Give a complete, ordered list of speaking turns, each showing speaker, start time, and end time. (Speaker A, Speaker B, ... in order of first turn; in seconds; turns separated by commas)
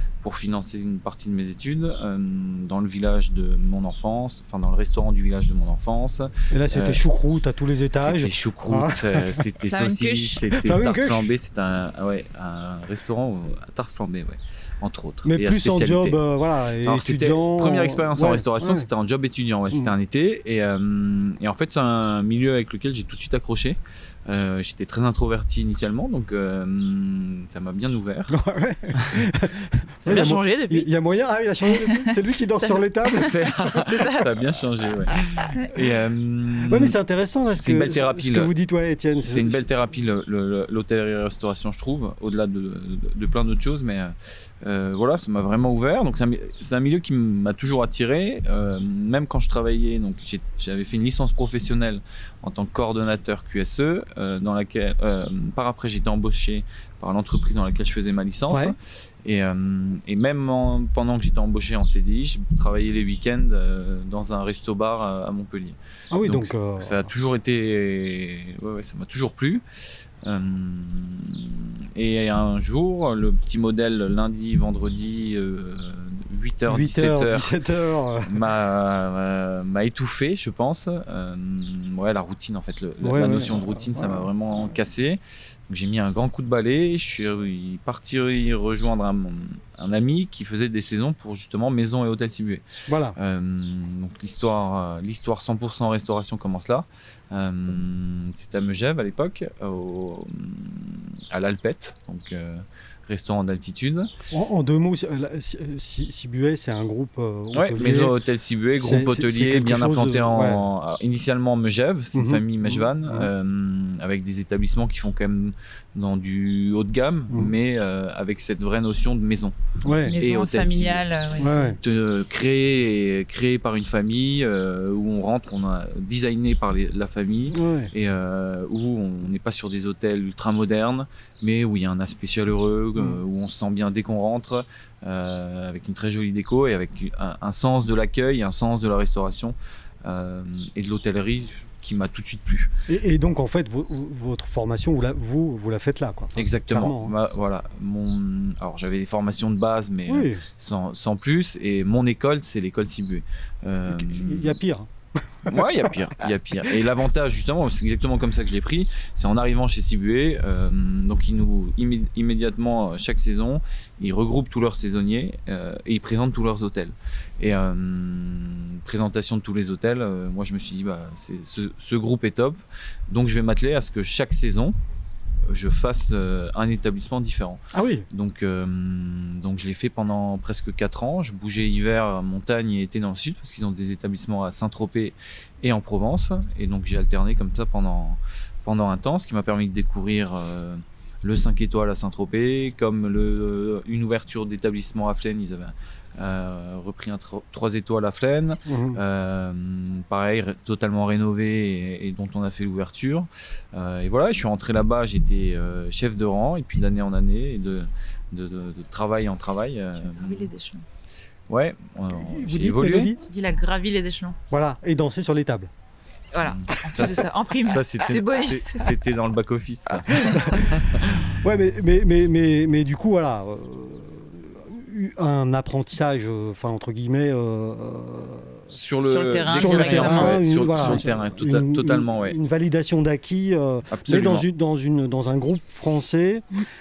Speaker A: 0.2-7.0, Speaker B: 6.5-9.4, Speaker A: 7.9-16.2, Speaker C: 9.7-10.4, Speaker B: 10.6-11.3, Speaker B: 15.2-18.9, Speaker A: 16.8-28.4, Speaker B: 28.3-33.5, Speaker C: 30.0-30.9, Speaker C: 31.6-34.4, Speaker A: 33.2-37.0, Speaker C: 35.5-35.7, Speaker B: 36.7-39.6, Speaker A: 37.6-38.5, Speaker A: 39.2-69.6, Speaker B: 58.5-58.8, Speaker B: 66.1-67.1, Speaker A: 70.2-77.5, Speaker B: 76.7-78.4, Speaker A: 78.2-92.7, Speaker B: 83.0-84.3, Speaker B: 92.9-93.2, Speaker A: 93.2-104.1, Speaker B: 104.3-108.2, Speaker A: 107.5-119.5, Speaker B: 108.8-110.7, Speaker B: 112.1-113.3, Speaker B: 119.8-120.2, Speaker A: 120.1-121.0, Speaker C: 120.1-121.8, Speaker B: 121.4-121.8, Speaker A: 121.8-142.7, Speaker B: 127.5-127.9, Speaker B: 142.9-147.1, Speaker A: 146.4-154.6, Speaker B: 150.1-150.4, Speaker B: 153.9-156.9, Speaker A: 155.5-174.8, Speaker A: 175.5-210.5, Speaker B: 177.7-178.1, Speaker B: 198.7-199.0, Speaker C: 210.0-210.8, Speaker A: 211.5-213.1, Speaker B: 212.2-213.2, Speaker C: 213.2-214.4, Speaker B: 214.5-215.7, Speaker C: 216.3-218.9, Speaker A: 216.4-221.3, Speaker B: 220.1-228.6, Speaker A: 228.7-232.4, Speaker C: 229.0-231.0, Speaker B: 229.5-236.4, Speaker A: 233.9-234.5